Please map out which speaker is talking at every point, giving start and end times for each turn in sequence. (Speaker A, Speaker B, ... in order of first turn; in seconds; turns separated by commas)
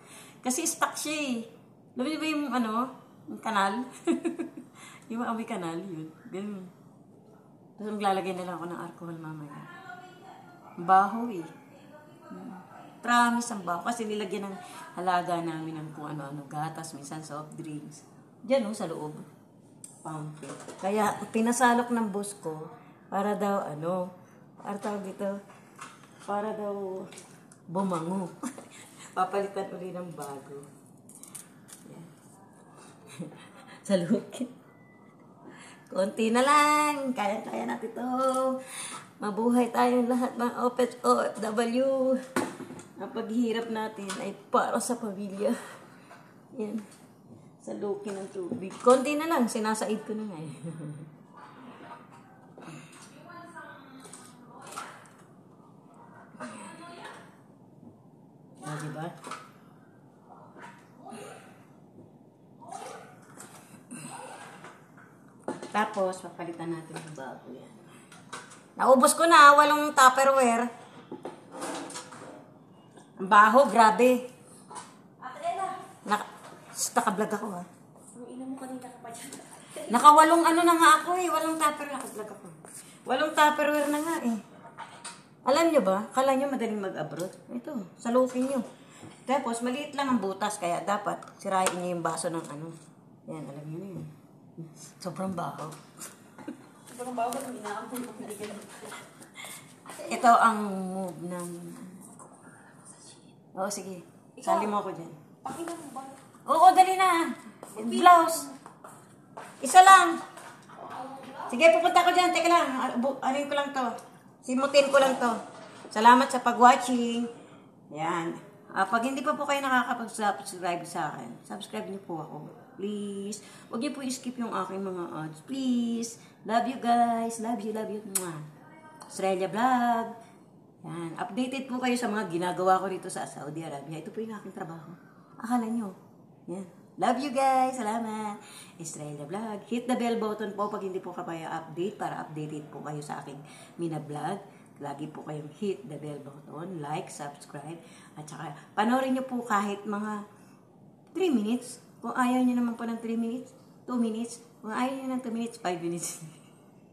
Speaker A: 0.4-6.7, Speaker A: 7.8-9.8, Speaker A: 10.8-11.5, Speaker A: 12.3-19.3, Speaker A: 20.0-24.1, Speaker A: 24.6-25.4, Speaker A: 26.3-27.1, Speaker A: 27.7-30.7, Speaker A: 31.9-32.1, Speaker A: 33.1-34.5, Speaker A: 35.9-42.2, Speaker A: 43.0-45.7, Speaker A: 46.5-46.9, Speaker A: 47.6-51.1, Speaker A: 58.6-59.1, Speaker A: 65.7-67.9, Speaker A: 68.8-70.7, Speaker A: 73.2-74.2, Speaker B: 75.3-75.8, Speaker A: 75.9-77.7, Speaker B: 78.2-79.8, Speaker A: 79.8-84.4, Speaker A: 85.5-88.7, Speaker A: 89.2-92.8, Speaker A: 93.3-95.8, Speaker B: 96.9-99.0, Speaker A: 100.0-102.1, Speaker A: 103.5-105.2, Speaker B: 105.4-106.2, Speaker A: 106.5-108.5, Speaker B: 107.8-108.3, Speaker A: 109.6-110.2, Speaker A: 111.3-115.4, Speaker A: 115.9-117.3, Speaker A: 117.9-128.5, Speaker A: 129.1-130.1, Speaker A: 130.8-136.0, Speaker A: 136.5-150.2, Speaker A: 151.1-156.4